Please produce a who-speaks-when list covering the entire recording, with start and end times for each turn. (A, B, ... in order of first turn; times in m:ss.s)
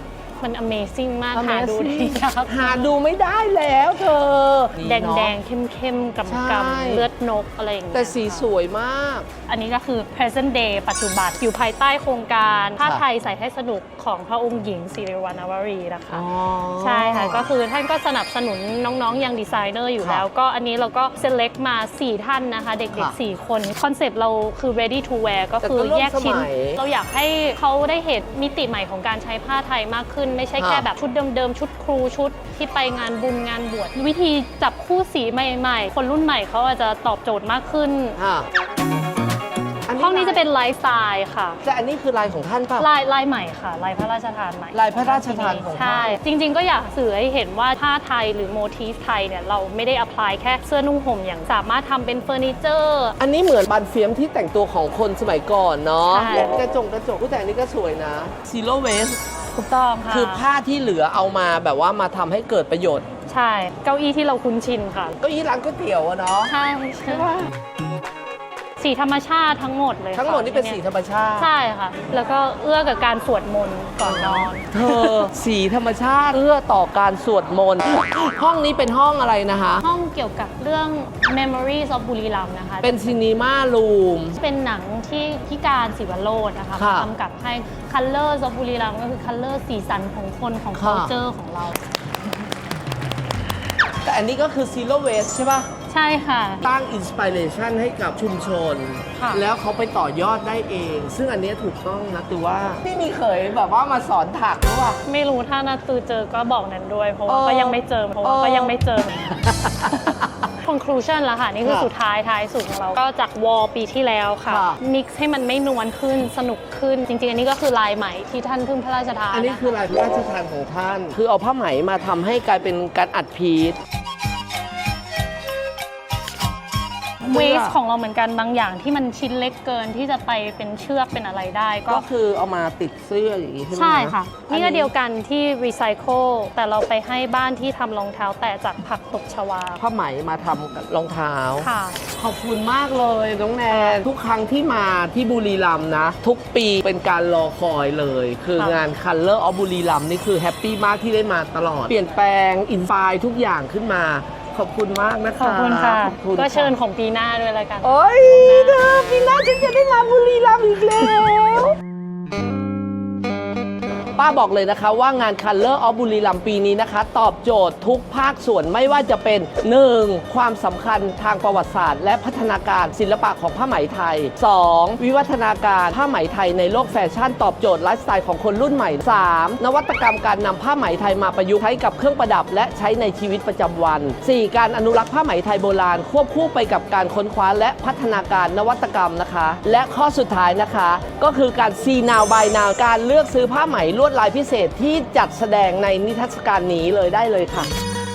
0:00.4-0:03.0 A
0:01.3-0:05.4 B
0:04.8-0:08.5 A
0:06.3-0:07.1 B
0:07.9-0:09.3 B
0:09.5-0:38.2 A
0:16.1-0:17.5 B
0:20.0-0:20.2 B
0:25.6-0:26.8 B
0:30.6-0:30.9 B
0:38.2-0:38.5 B
0:39.9-0:40.4 B
0:40.0-0:41.6 A
0:41.6-0:42.9 B
0:42.8-0:53.2 A
0:44.7-0:46.2 B
0:53.2-0:59.2 B
0:56.1-0:56.6 A
0:59.5-1:00.5 A
1:00.1-1:03.0 B
1:03.3-1:05.2 A
1:05.2-1:06.5 B
1:06.5-1:07.3 A
1:07.1-1:07.5 B
1:08.8-1:10.8 A
1:10.2-1:11.5 B
1:11.4-1:15.3 A
1:14.0-1:19.8 B
1:19.8-1:23.2 A
1:22.8-1:24.4 B
1:24.4-1:31.8 A
1:26.8-1:27.1 B
1:30.7-1:31.1 B
1:34.0-1:35.7 B
1:35.9-1:36.7 A
1:36.6-1:45.0 B
1:39.2-1:39.4 A
1:45.0-1:49.4 A
1:47.3-1:48.8 B
1:49.3-1:50.5 B
1:50.6-1:59.8 A
1:51.6-1:51.9 B
1:54.5-1:54.8 B
1:59.3-2:03.8 B
2:07.2-2:12.1 A
2:07.3-2:07.8 B
2:11.9-2:14.9 B
2:13.7-2:19.8 A
2:19.8-2:36.7 B
2:21.6-2:22.0 A
2:23.7-2:24.0 A
2:28.6-2:28.8 A
2:35.4-2:38.9 A
2:37.8-2:41.8 B
2:44.2-3:17.7 B